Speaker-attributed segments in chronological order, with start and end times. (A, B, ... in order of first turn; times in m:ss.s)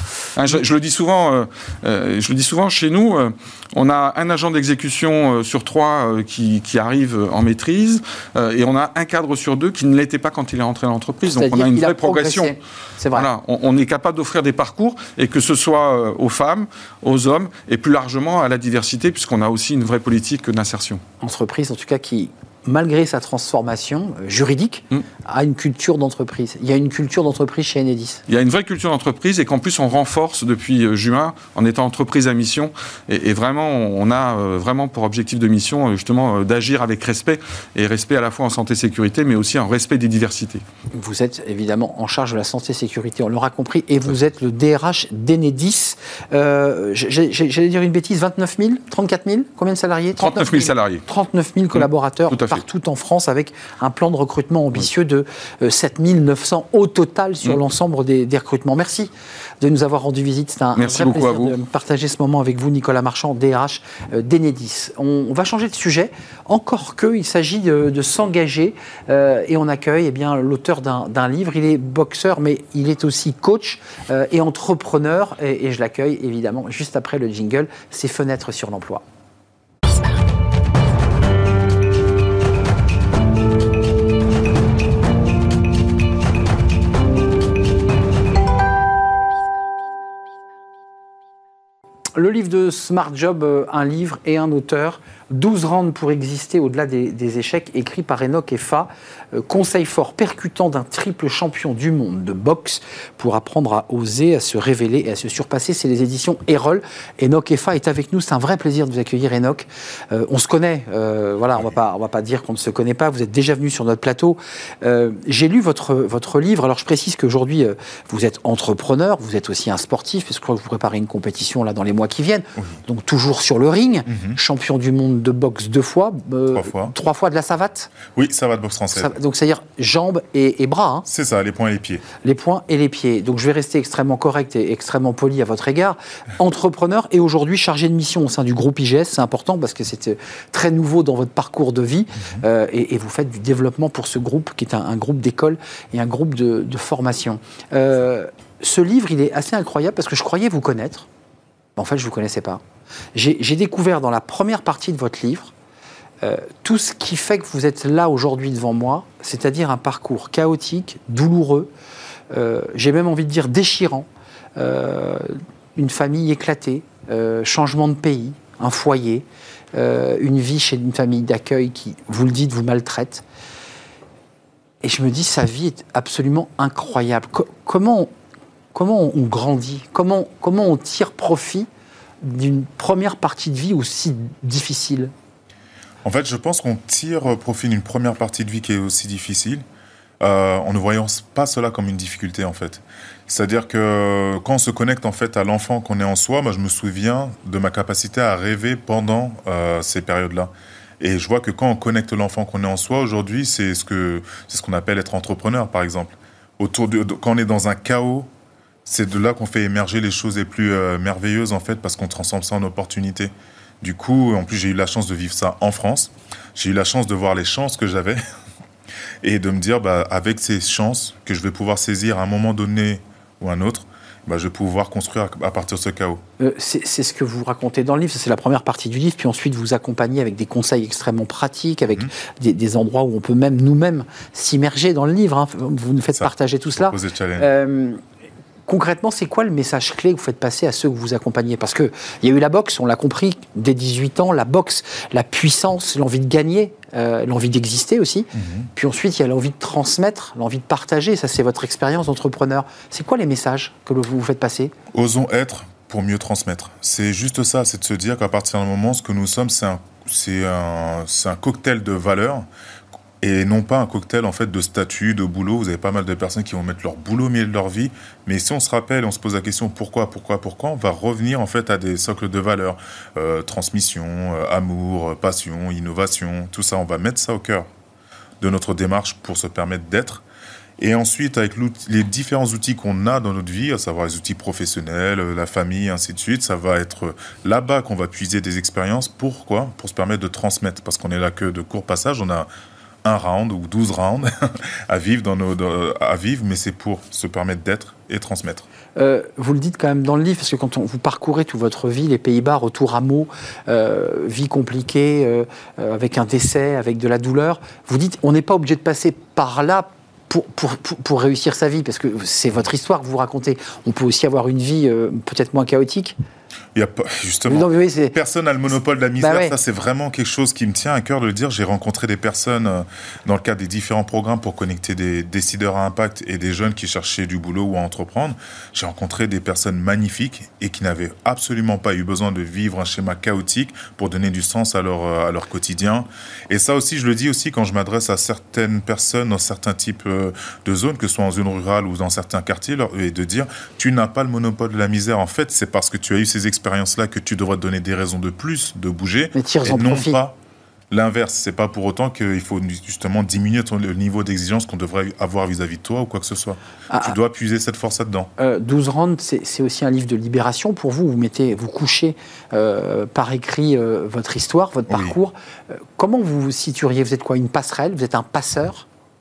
0:00.3-0:12.5 A
0:11.2-0:13.3 B
0:13.1-0:21.0 A
0:21.2-0:28.2 B
0:28.3-0:40.6 A
0:40.9-1:19.0 B
0:50.2-0:51.0 A
0:52.3-0:52.6 A
1:00.8-1:01.5 A
1:32.2-2:07.9 B
2:04.1-2:04.4 C
2:06.5-2:06.9 C
2:08.1-2:09.1 C
2:08.9-2:11.0 B
2:11.0-2:12.0 C
2:12.2-2:31.1 B
2:31.8-2:32.6 B
2:33.1-2:35.5 B
2:36.2-2:41.7 B
2:42.3-2:53.2 B
2:54.8-2:58.1 B
2:58.7-3:01.7 B
3:02.2-3:05.1 B
3:06.0-3:09.6 C
3:10.2-3:28.3 C
3:28.8-3:38.2 C
3:39.2-3:46.2 C
3:46.4-3:58.0 B
3:56.2-3:57.5 C
3:58.7-4:14.7 B
4:08.3-4:08.7 C
4:14.9-4:22.5 C
4:23.2-4:37.6 C
4:38.4-4:40.2 C
4:40.8-4:52.5 C
4:53.0-4:58.6 C
4:59.0-5:16.2 B
5:16.7-5:50.3 C
5:17.5-5:18.1 B
5:19.2-5:19.5 B
5:49.3-5:50.2 B
5:50.9-5:58.3 C
5:56.9-5:57.1 B
5:58.4-6:08.8 B
6:04.9-6:05.1 C